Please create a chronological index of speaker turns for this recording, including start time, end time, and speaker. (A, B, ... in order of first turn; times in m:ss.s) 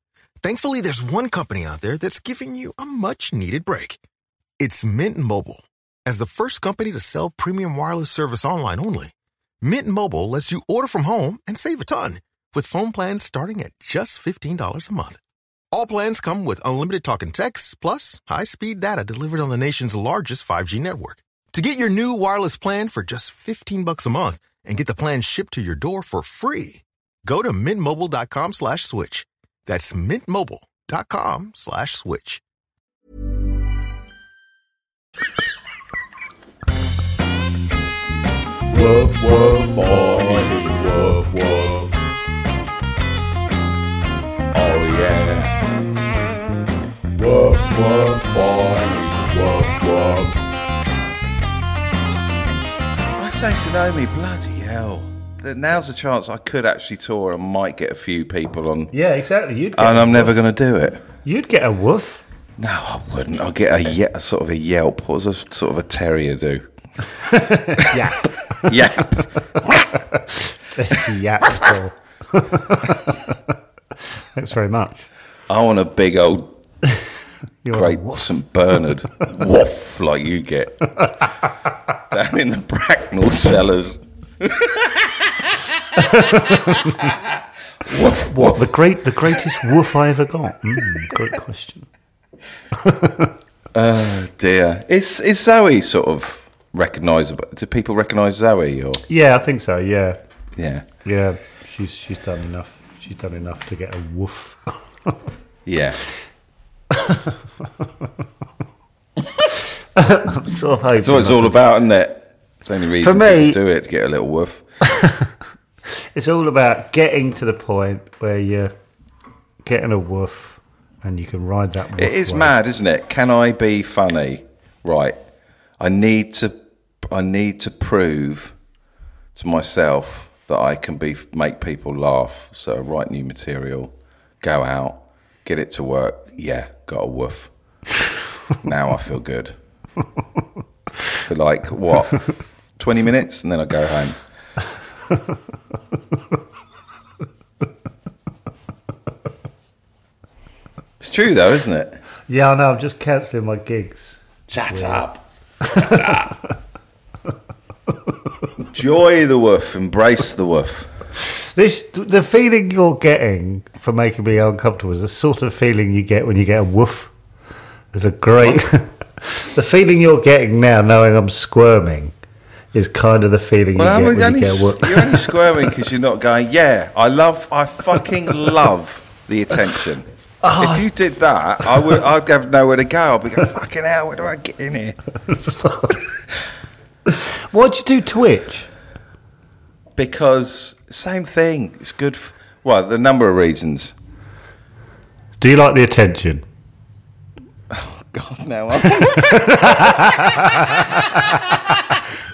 0:00.4-0:04.0 A
0:04.6-0:15.2 A
0:15.7-0:32.4 A
0:38.7-0:41.9 B
0:44.5-0:45.5 B
0:47.1-0:50.4 B
0:53.2-0:58.9 B
0:58.9-1:00.4 C
0:59.7-1:01.0 B
1:01.2-1:02.2 C
1:02.6-1:06.7 B
1:07.1-1:09.0 C
1:08.6-1:09.8 B
1:09.9-1:13.4 C
1:14.3-1:15.1 C
1:15.5-1:16.5 B
1:17.6-1:18.3 C
1:17.7-1:21.2 B
1:22.1-1:27.2 B
1:26.0-1:27.1 C
1:27.8-1:28.7 B
1:28.0-1:31.9 C
1:32.8-1:33.3 C
1:33.7-1:39.0 B
1:39.1-1:40.2 C
1:40.6-1:40.8 B
1:41.0-1:45.1 C
1:45.6-1:46.0 B
1:46.9-1:47.9 C
1:49.9-1:51.6 C
1:51.0-1:54.6 B
1:53.0-1:53.6 C
1:54.8-1:55.3 C
1:55.9-1:58.7 C
1:59.6-2:02.5 C
2:02.0-2:05.1 B
2:05.8-2:08.5 B
2:09.3-2:17.5 B
2:18.6-2:19.5 B
2:21.2-2:24.2 B
2:31.0-2:32.0 B
2:32.3-2:35.0 C
2:34.5-2:36.3 B
2:35.6-2:36.3 C
2:38.6-2:40.9 B
2:41.5-2:47.1 C
2:47.9-2:52.1 C
2:52.7-2:55.4 C
2:53.7-3:00.0 B
3:00.4-3:01.1 C
3:00.6-3:05.0 B
3:05.3-3:06.0 C
3:07.1-3:08.7 C
3:10.0-3:13.9 B
3:15.4-3:16.4 C
3:17.7-3:21.8 B
3:18.8-3:21.9 C